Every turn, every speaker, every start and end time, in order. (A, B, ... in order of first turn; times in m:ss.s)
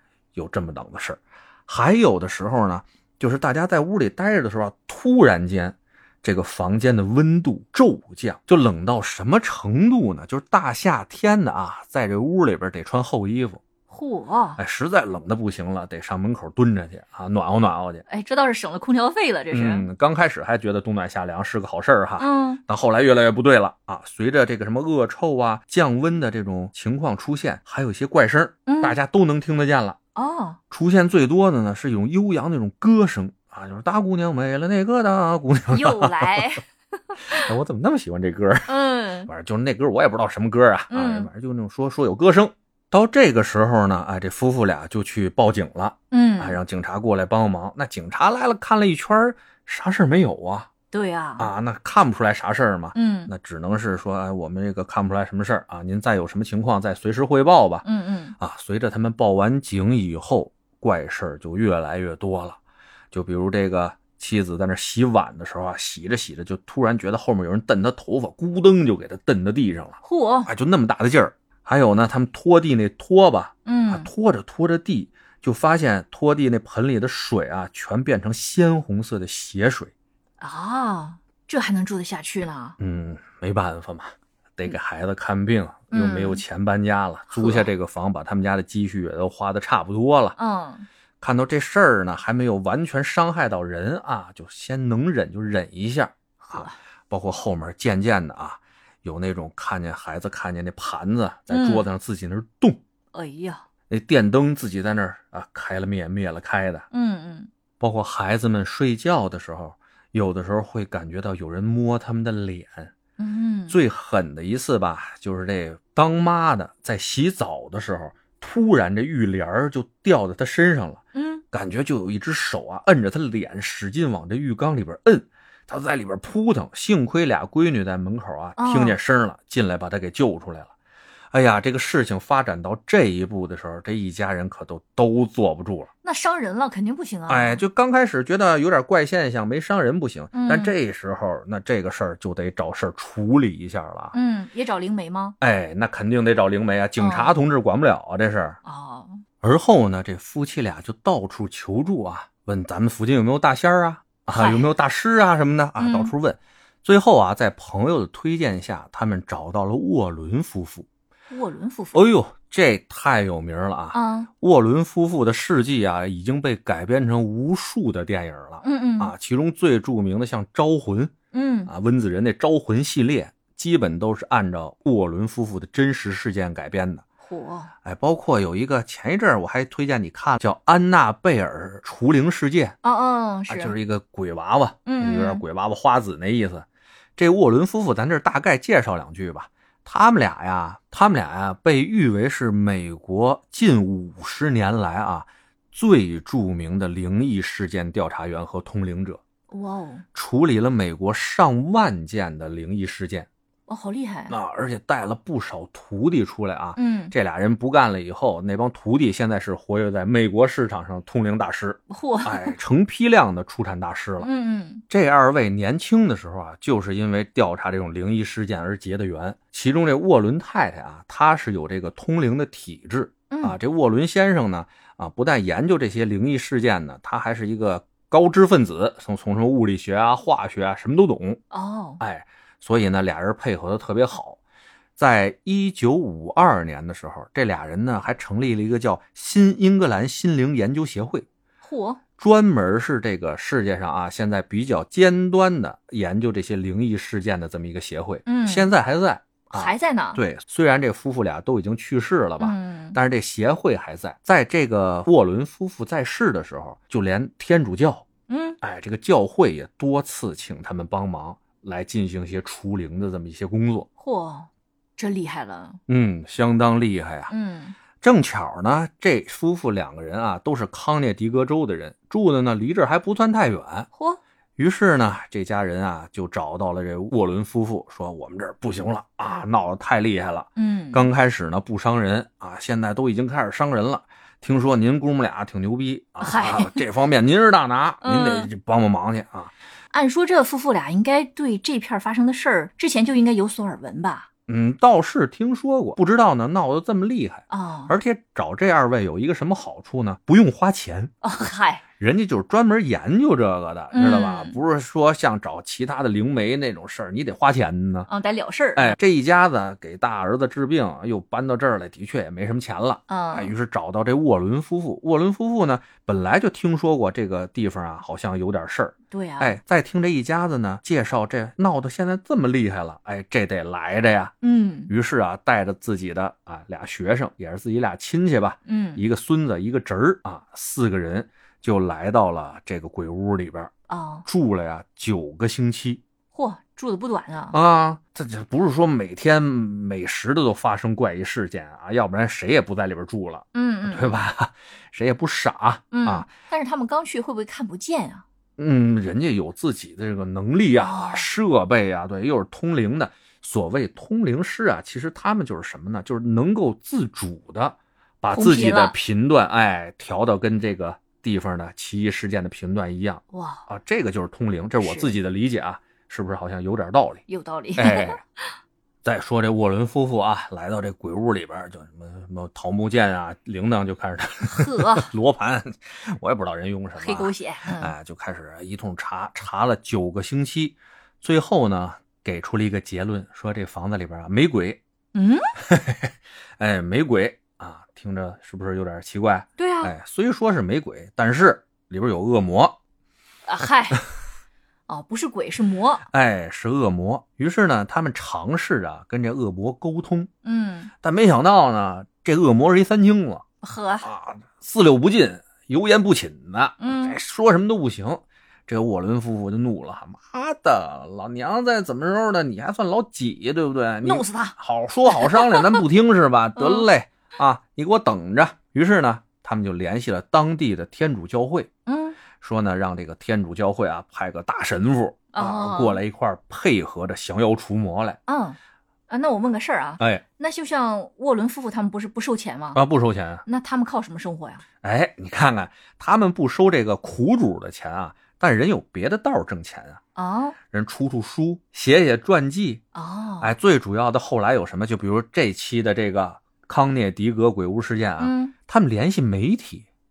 0:00.4-0:13.6 A
0:13.9-0:14.6 B
0:14.6-0:18.0 A
0:18.1-0:19.9 B
0:19.5-0:30.0 A
0:22.2-0:22.6 B
0:28.7-0:29.0 B
0:30.2-0:30.6 B
0:30.7-0:36.5 A
0:35.7-0:37.5 B
0:37.3-0:38.7 A
0:38.7-0:39.3 B
0:39.3-0:50.7 A
0:40.9-0:41.3 B
0:46.1-0:46.6 B
0:50.9-0:51.5 B
0:51.4-0:57.8 A
0:52.9-0:53.3 B
0:57.8-0:58.4 B
0:58.4-1:02.6 A
1:03.1-1:19.9 A
1:10.0-1:10.5 B
1:13.7-1:14.1 B
1:20.4-1:22.8 B
1:22.8-1:30.4 A
1:25.9-1:26.4 B
1:27.3-1:27.7 B
1:30.4-1:30.9 B
1:31.2-1:42.8 A
1:36.4-1:36.8 B
1:41.5-1:41.9 B
1:43.1-1:43.6 B
1:43.9-1:46.9 A
1:46.9-1:47.5 B
1:47.8-1:52.9 A
1:53.2-1:53.8 B
1:53.7-2:10.7 A
2:01.1-2:01.4 B
2:08.6-2:09.0 B
2:11.3-2:15.9 A
2:16.0-2:17.6 B
2:17.3-2:24.2 A
2:20.3-2:20.7 B
2:24.1-2:25.4 B
2:25.4-2:28.6 A
2:27.0-2:27.4 B
2:28.6-2:29.2 B
2:29.4-2:40.9 A
2:34.3-2:34.7 B
2:35.8-2:36.1 B
2:41.3-2:42.0 B
2:41.9-2:51.1 A
2:43.9-2:44.3 B
2:48.6-2:49.1 B
2:51.3-2:51.7 B
2:51.7-2:57.0 A
2:57.2-2:57.7 B
2:57.8-3:02.8 A
3:02.8-3:03.8 B
3:03.5-3:06.7 A
3:04.9-3:05.4 B
3:07.2-3:19.2 A
3:19.5-3:20.0 B
3:20.1-3:23.3 A
3:23.7-3:24.4 B
3:24.3-3:34.3 A
3:26.8-3:27.1 B
3:31.9-3:32.6 B
3:34.2-3:34.8 B
3:34.9-3:51.4 A
3:43.3-3:43.6 B
3:51.5-3:52.0 B
3:52.0-3:54.4 A
3:55.0-4:01.3 A
4:01.6-4:02.0 B
4:02.2-4:18.1 A
4:08.3-4:08.7 B
4:09.5-4:10.2 B
4:12.4-4:13.0 B
4:18.3-4:18.6 B
4:18.6-4:23.9 A
4:24.0-4:25.8 B
4:25.9-4:27.3 A
4:27.3-4:27.8 B
4:28.0-4:33.9 A
4:33.9-4:34.2 B
4:34.6-4:49.5 A
4:40.6-4:41.1 B
4:46.2-4:46.8 B
4:48.0-4:48.5 B
4:49.9-4:54.3 B
4:54.5-5:01.1 A
4:57.5-4:57.9 B
5:01.2-5:01.8 B
5:02.0-5:08.1 A
5:03.9-5:04.6 B
5:08.1-5:09.0 B
5:08.8-5:24.3 A
5:13.1-5:13.5 B
5:19.1-5:19.6 B
5:24.4-5:24.9 B
5:24.9-5:33.7 A
5:28.7-5:29.0 B
5:33.9-5:34.3 B
5:34.2-5:36.0 A
5:36.3-5:37.6 B
5:37.5-5:46.3 A
5:43.5-5:44.2 B
5:45.9-5:48.2 B
5:48.6-6:07.2 A
5:50.8-5:51.3 B
5:58.3-5:59.0 B
6:03.3-6:03.6 B
6:04.8-6:05.1 B
6:07.3-6:08.5 B
6:07.8-6:08.2 A
6:09.0-6:24.8 A
6:14.4-6:15.1 B
6:17.0-6:17.9 B
6:25.1-6:25.5 B
6:25.6-6:32.8 A
6:29.6-6:29.9 B
6:33.5-6:34.0 B
6:34.9-6:36.1 B
6:36.1-6:40.3 A
6:40.4-6:40.9 B
6:41.0-6:43.4 A
6:43.6-6:44.1 B
6:44.0-7:01.7 A
6:46.8-6:47.2 B
6:54.0-6:54.6 B
6:55.1-6:55.8 B
6:56.6-6:56.9 B
7:01.9-7:02.2 B
7:02.4-7:08.2 A
7:05.3-7:06.0 B
7:08.3-7:08.6 B
7:09.1-7:12.8 B
7:12.8-7:13.4 A
7:13.5-7:14.6 B
7:14.8-7:20.0 A
7:20.2-7:20.6 B
7:20.7-7:22.8 A
7:23.0-7:23.5 B
7:23.4-7:29.9 A
7:28.2-7:28.5 B